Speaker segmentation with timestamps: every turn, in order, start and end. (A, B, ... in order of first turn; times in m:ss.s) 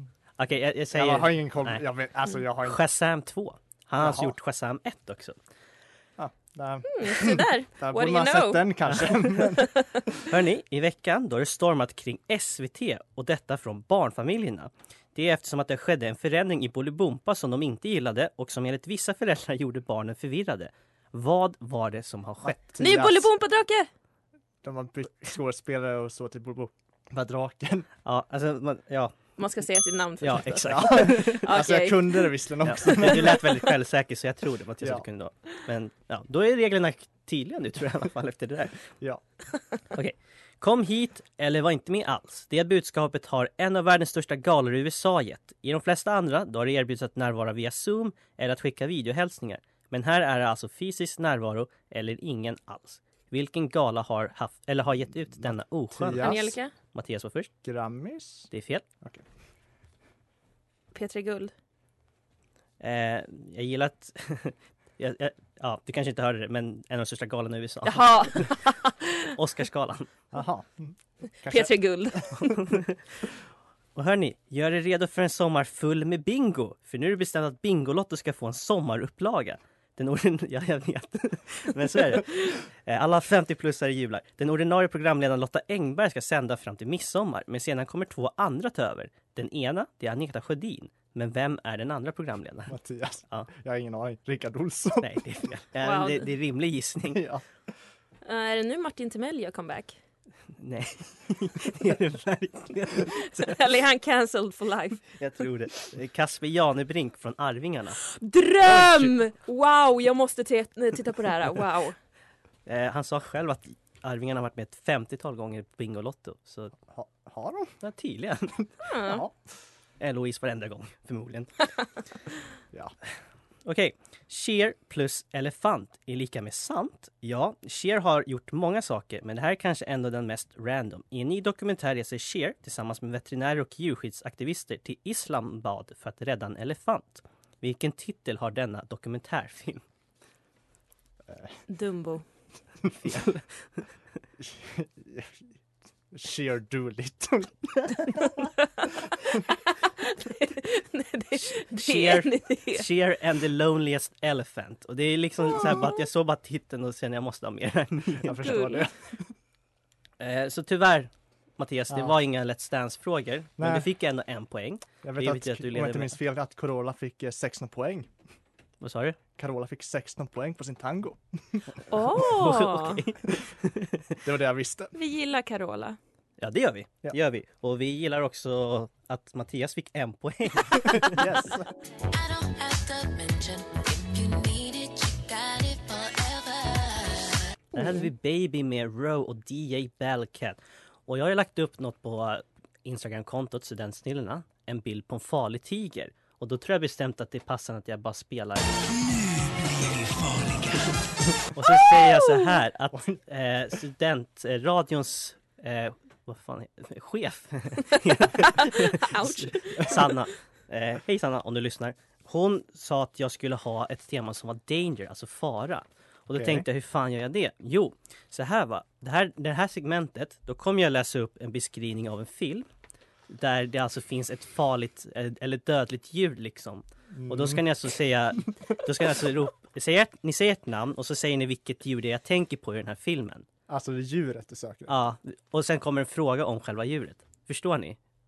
0:00.4-0:01.8 A
0:00.9-0:02.8 B
0:02.6-0:05.4 A
0:04.0-0:04.4 B
0:06.2-0:09.8 B
0:06.9-0:08.8 C
0:08.9-0:09.3 A
0:10.3-0:22.6 A
0:22.4-0:23.3 B
0:22.8-0:23.9 C
0:24.6-0:27.9 B
0:28.0-0:29.2 A
0:29.4-0:32.3 C
0:30.2-0:31.4 A
0:30.6-0:33.4 B
0:32.6-0:38.8 A
0:32.9-0:33.5 C
0:39.9-0:57.5 A
0:55.4-0:56.5 B
0:56.2-0:56.7 C
0:57.6-0:58.5 B
0:58.5-0:58.8 A
1:00.9-1:01.5 C
1:02.8-1:08.5 A
1:07.8-1:09.2 C
1:09.4-1:10.1 A
1:10.3-1:11.7 B
1:11.5-1:12.6 C
1:14.0-1:32.8 A
1:32.7-1:35.2 B
1:35.0-1:37.2 A
1:35.8-1:36.3 C
1:37.1-1:37.4 B
1:38.2-1:40.0 C
1:40.6-1:43.6 A
1:43.4-1:45.1 C
1:45.2-1:48.0 A
1:48.2-1:52.0 C
1:48.7-1:49.1 A
1:52.7-1:56.7 A
1:56.9-1:57.8 B
1:57.8-1:58.6 A
1:58.9-1:59.2 C
1:59.0-1:59.3 B
2:00.0-2:01.5 A
2:03.7-2:19.8 A
2:21.3-2:21.6 B
2:21.7-2:22.2 C
2:23.0-2:23.5 A
2:24.4-2:25.5 B
2:26.1-2:28.3 B
2:28.3-2:29.4 C
2:30.0-2:32.8 C
2:31.7-2:38.4 A
2:38.2-2:39.3 B
2:38.4-2:38.9 C
2:40.2-2:46.2 A
2:43.6-2:43.9 B
2:45.0-2:48.1 B
2:48.8-2:49.2 A
2:49.4-2:51.6 B
2:51.9-2:53.0 C
2:52.1-2:54.2 A
2:54.2-2:54.9 B
2:55.0-2:56.0 C
2:56.4-3:01.2 A
3:00.8-3:01.7 B
3:02.1-3:07.4 D
3:07.8-3:18.8 A
3:21.4-3:42.7 A
3:21.9-3:22.5 C
3:22.9-3:23.2 B
3:28.3-3:30.1 C
3:36.4-3:36.7 B
3:43.3-3:53.5 A
3:47.1-3:47.9 B
3:53.7-3:54.9 B
3:54.9-3:58.0 A